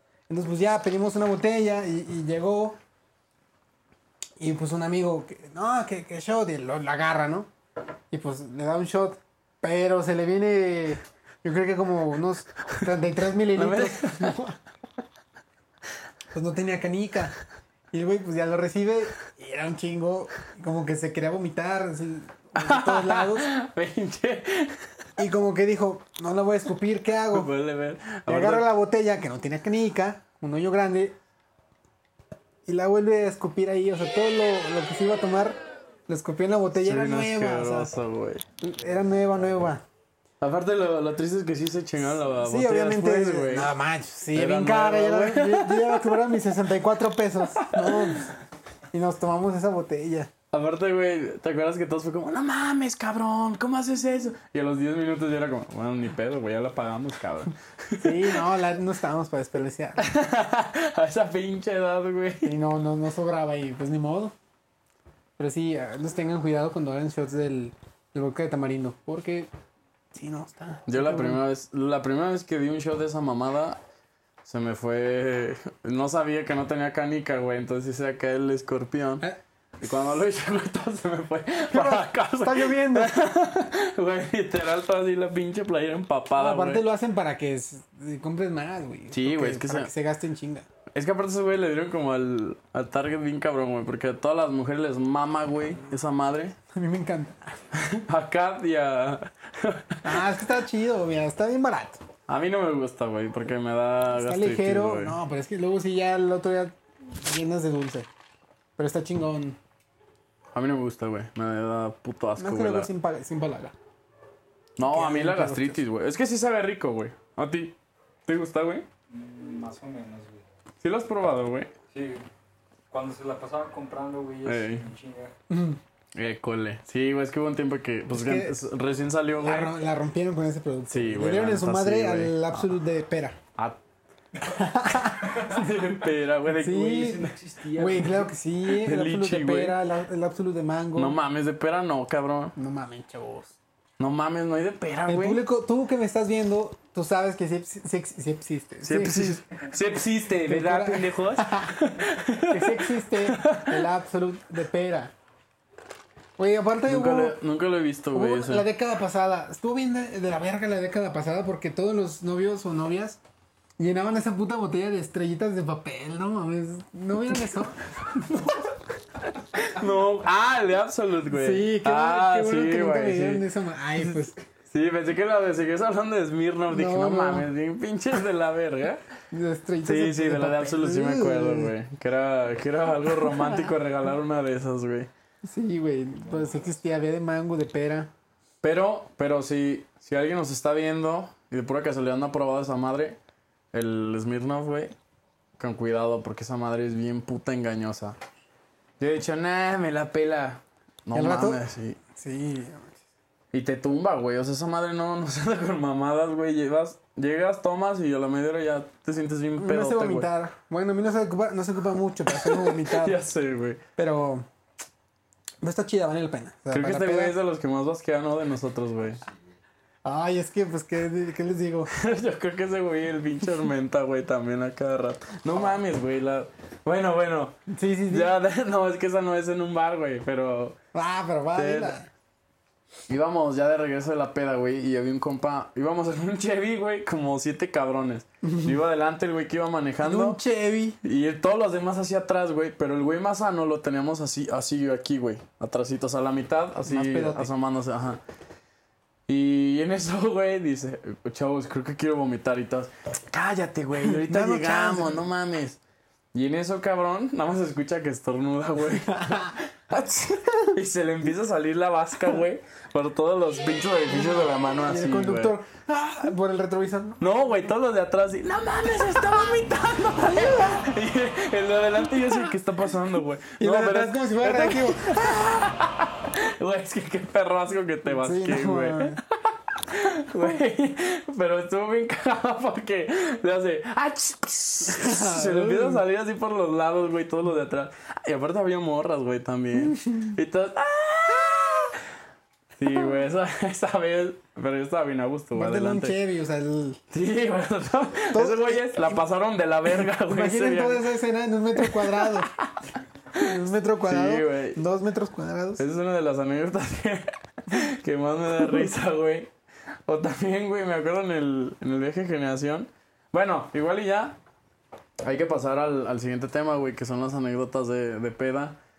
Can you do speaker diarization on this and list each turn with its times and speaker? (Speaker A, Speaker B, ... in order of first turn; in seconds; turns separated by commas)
Speaker A: 0.3-2.8, Speaker A: 4.4-7.5, Speaker A: 8.1-14.6, Speaker B: 13.6-14.4, Speaker A: 16.3-17.4, Speaker A: 17.9-23.5, Speaker B: 22.6-24.8, Speaker A: 25.2-27.5, Speaker B: 27.3-28.7, Speaker A: 28.3-31.2, Speaker A: 32.7-37.9, Speaker B: 36.8-38.4, Speaker A: 38.6-39.8, Speaker B: 40.4-43.7, Speaker A: 42.1-48.3, Speaker B: 44.3-46.4, Speaker B: 47.6-48.2, Speaker A: 48.9-50.3, Speaker B: 50.5-58.4, Speaker A: 58.0-60.1, Speaker B: 60.0-62.5, Speaker A: 62.4-64.3, Speaker A: 65.4-69.5, Speaker A: 70.1-71.4, Speaker B: 70.9-73.8, Speaker B: 74.4-79.2, Speaker B: 79.8-86.8, Speaker A: 81.7-83.1, Speaker A: 86.4-90.7, Speaker B: 89.1-89.9, Speaker B: 90.9-96.6, Speaker A: 96.7-97.4, Speaker B: 97.7-100.2, Speaker A: 100.0-102.0, Speaker B: 102.3-105.2, Speaker A: 104.1-108.1, Speaker A: 108.8-109.6, Speaker B: 110.5-112.9, Speaker A: 112.4-113.8, Speaker B: 114.8-118.9, Speaker A: 114.8-115.8, Speaker C: 119.1-120.5, Speaker B: 120.8-121.7, Speaker C: 121.9-122.3, Speaker C: 122.9-125.3, Speaker B: 124.5-124.9, Speaker A: 125.5-125.8, Speaker B: 126.2-129.8, Speaker A: 128.1-128.7, Speaker A: 129.4-133.4, Speaker B: 130.9-132.7, Speaker A: 134.5-135.4, Speaker B: 135.1-137.2, Speaker A: 136.5-141.2, Speaker C: 136.8-138.3, Speaker B: 138.7-139.8, Speaker B: 141.0-142.6, Speaker A: 142.6-143.6, Speaker B: 144.0-145.4, Speaker A: 145.1-149.5, Speaker B: 148.8-153.9, Speaker A: 150.4-151.8, Speaker A: 152.4-155.1, Speaker A: 156.4-157.4, Speaker B: 156.9-158.7, Speaker A: 158.1-163.2, Speaker A: 163.8-168.5, Speaker B: 168.3-168.6, Speaker B: 169.5-173.5, Speaker A: 171.3-174.4, Speaker B: 174.0-179.0, Speaker A: 176.7-177.5, Speaker A: 179.3-181.7, Speaker B: 179.8-185.1, Speaker A: 185.4-188.1, Speaker B: 188.6-193.2, Speaker B: 193.7-195.0, Speaker B: 195.6-198.2, Speaker B: 199.0-202.0, Speaker A: 201.1-203.0, Speaker B: 203.5-210.3, Speaker A: 209.6-213.2, Speaker B: 212.3-213.8, Speaker A: 214.0-214.5, Speaker A: 215.6-217.4, Speaker B: 216.7-219.2, Speaker A: 220.1-221.9, Speaker B: 221.9-227.6, Speaker A: 227.7-228.3, Speaker B: 228.1-230.8, Speaker A: 230.9-232.1, Speaker B: 231.6-232.0, Speaker B: 233.1-240.4, Speaker A: 238.4-238.8, Speaker A: 240.0-241.0, Speaker B: 241.0-248.2, Speaker A: 246.8-247.5, Speaker B: 249.3-255.8, Speaker A: 254.0-255.2, Speaker B: 256.3-265.6, Speaker A: 264.1-267.2, Speaker B: 267.2-292.0, Speaker A: 273.6-275.5, Speaker A: 278.1-279.2, Speaker A: 284.9-286.0, Speaker B: 292.8-296.2, Speaker A: 295.5-297.0, Speaker B: 297.1-301.1, Speaker A: 298.3-299.2, Speaker A: 300.2-302.5, Speaker B: 301.8-304.8, Speaker A: 303.3-305.9, Speaker B: 305.8-309.5, Speaker B: 310.1-314.4, Speaker B: 315.2-318.8